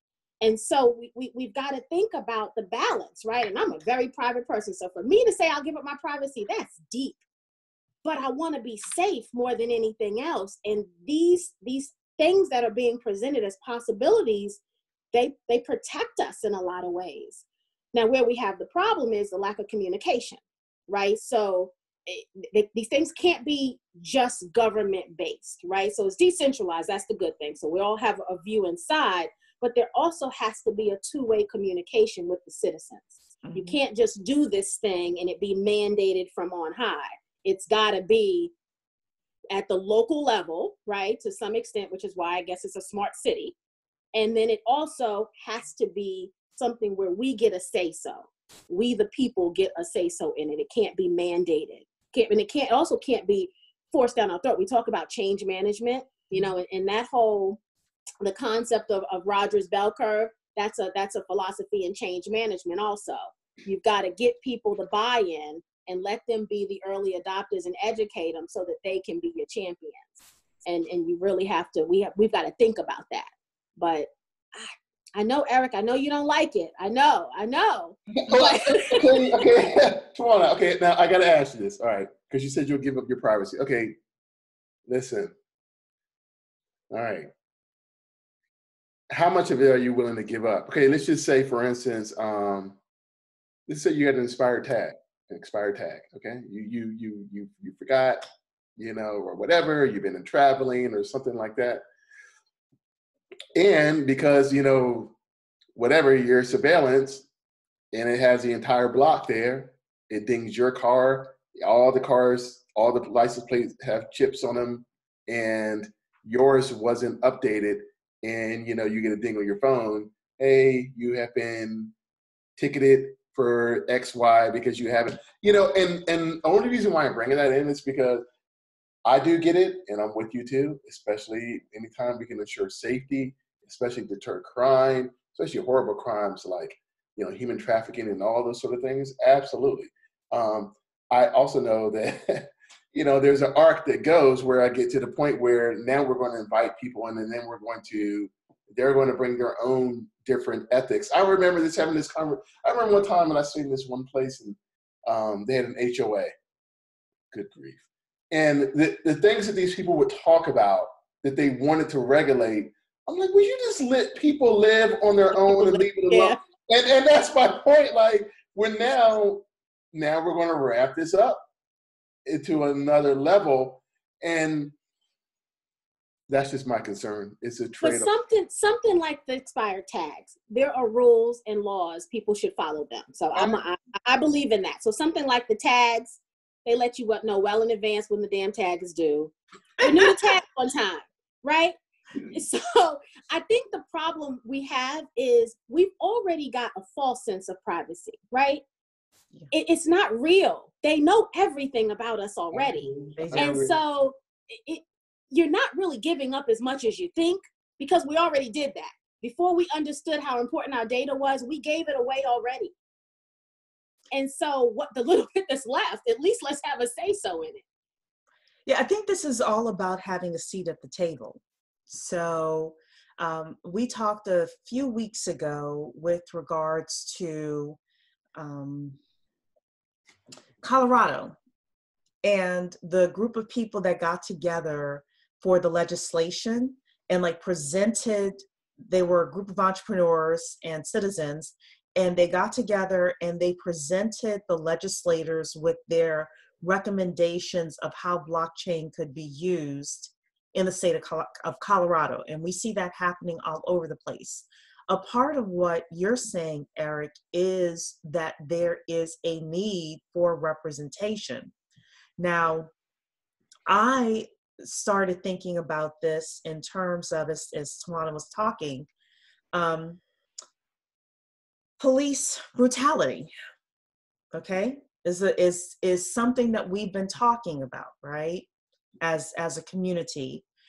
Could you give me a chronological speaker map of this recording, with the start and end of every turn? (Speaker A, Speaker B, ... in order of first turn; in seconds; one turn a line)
Speaker A: 0.4-7.2
Speaker A: 8.0-14.6
Speaker A: 15.1-38.5
Speaker B: 33.5-33.8
Speaker A: 39.5-43.6
Speaker A: 44.1-57.6
Speaker A: 58.2-79.3
Speaker C: 78.2-84.0
Speaker C: 84.9-85.3
Speaker C: 86.9-87.3
Speaker C: 89.1-92.8
Speaker C: 93.7-98.3
Speaker C: 98.8-101.8
Speaker C: 103.5-105.2
Speaker C: 105.8-107.3
Speaker C: 107.9-121.9
Speaker C: 122.6-128.2
Speaker C: 129.1-156.3
Speaker C: 157.3-171.5
Speaker A: 165.3-166.4
Speaker C: 172.3-174.7
Speaker C: 176.3-178.1
Speaker A: 177.8-198.6
Speaker A: 199.5-212.7
Speaker C: 202.5-203.8
Speaker B: 203.1-203.6
Speaker A: 214.1-217.6
Speaker B: 218.7-227.8
Speaker B: 228.4-229.0
Speaker B: 230.6-231.3
Speaker B: 232.2-261.5
Speaker B: 262.2-262.7
Speaker B: 263.7-268.9
Speaker B: 269.5-270.0
Speaker B: 271.8-273.3
Speaker B: 274.3-278.5
Speaker B: 279.0-280.4